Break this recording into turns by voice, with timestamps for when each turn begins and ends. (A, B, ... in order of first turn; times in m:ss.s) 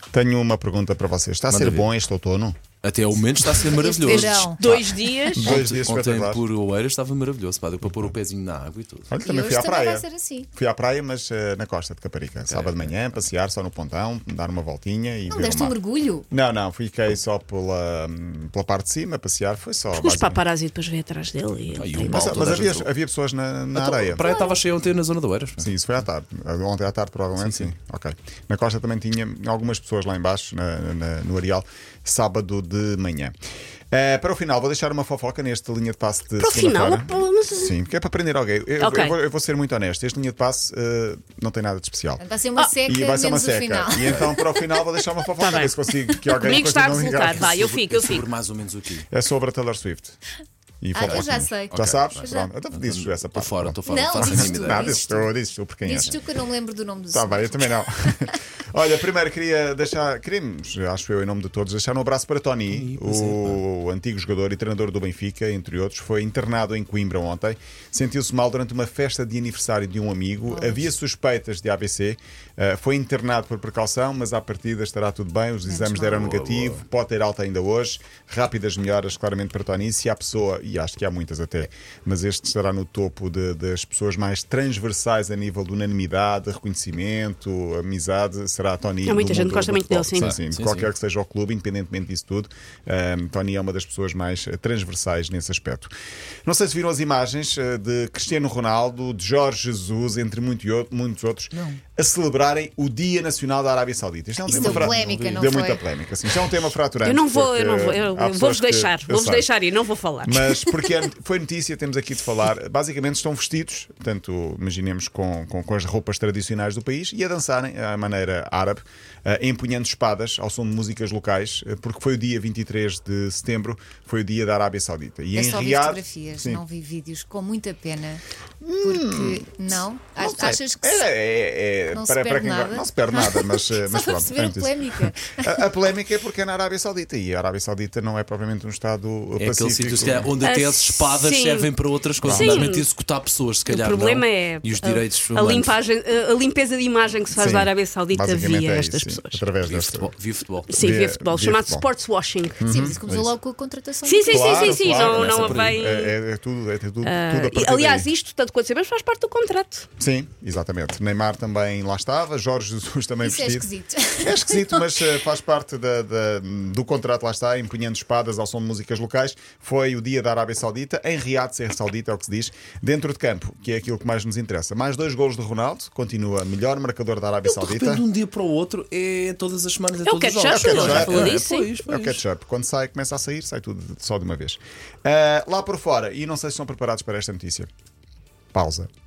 0:00.1-0:02.6 A
0:01.5-0:01.9 B
0:02.8-0:09.1 B
0:03.5-0:04.6 C
0:04.1-0:05.5 D
0:05.4-0:06.4 A
0:09.1-0:15.8 A
0:09.2-0:10.5 C
0:12.4-0:13.2 B
0:15.3-0:16.3 C
0:16.3-0:20.4 A
0:19.9-0:22.3 D
0:21.7-0:22.9 B
0:22.1-0:24.2 A
0:23.8-0:25.7 B
0:25.6-0:33.4 A
0:27.4-0:27.7 B
0:33.9-0:42.2 A
0:36.4-0:37.7 D
0:38.8-0:39.2 D
0:42.2-0:44.8 C
0:42.9-0:47.9 A
0:44.0-0:44.3 B
0:45.4-0:45.7 D
0:46.4-0:48.3 D
0:47.3-0:49.1 B
0:49.1-0:50.2 A
0:50.8-0:56.2 A
0:50.9-0:52.5 C
0:51.0-0:55.2 B
0:53.8-0:58.3 C
0:57.1-1:35.9 A
1:02.7-1:03.6 B
1:10.5-1:10.8 C
1:15.7-1:16.2 C
1:16.0-1:16.8 B
1:29.0-1:30.4 D
1:30.2-1:30.9 B
1:36.5-1:49.5 A
1:44.5-1:45.8 C
1:44.5-1:45.0 B
1:47.0-1:50.7 D
1:50.2-2:06.6 A
2:05.3-2:08.2 C
2:08.6-2:20.3 A
2:08.8-2:11.0 C
2:11.9-2:15.5 C
2:19.4-2:25.7 B
2:20.4-2:22.9 D
2:22.2-2:22.7 A
2:23.7-2:29.4 D
2:27.4-2:30.1 A
2:29.6-2:30.7 B
2:30.7-2:32.6 D
2:30.8-2:31.9 A
2:32.6-2:33.3 A
2:32.6-2:34.8 C
2:34.0-2:36.2 D
2:34.3-2:38.1 A
2:34.8-2:35.8 B
2:37.0-2:39.9 D
2:40.0-2:43.7 A
2:43.2-2:44.9 C
2:44.2-2:58.0 A
2:57.5-3:02.2 B
3:00.0-3:01.7 D
3:00.5-3:07.7 A
3:08.5-3:08.9 A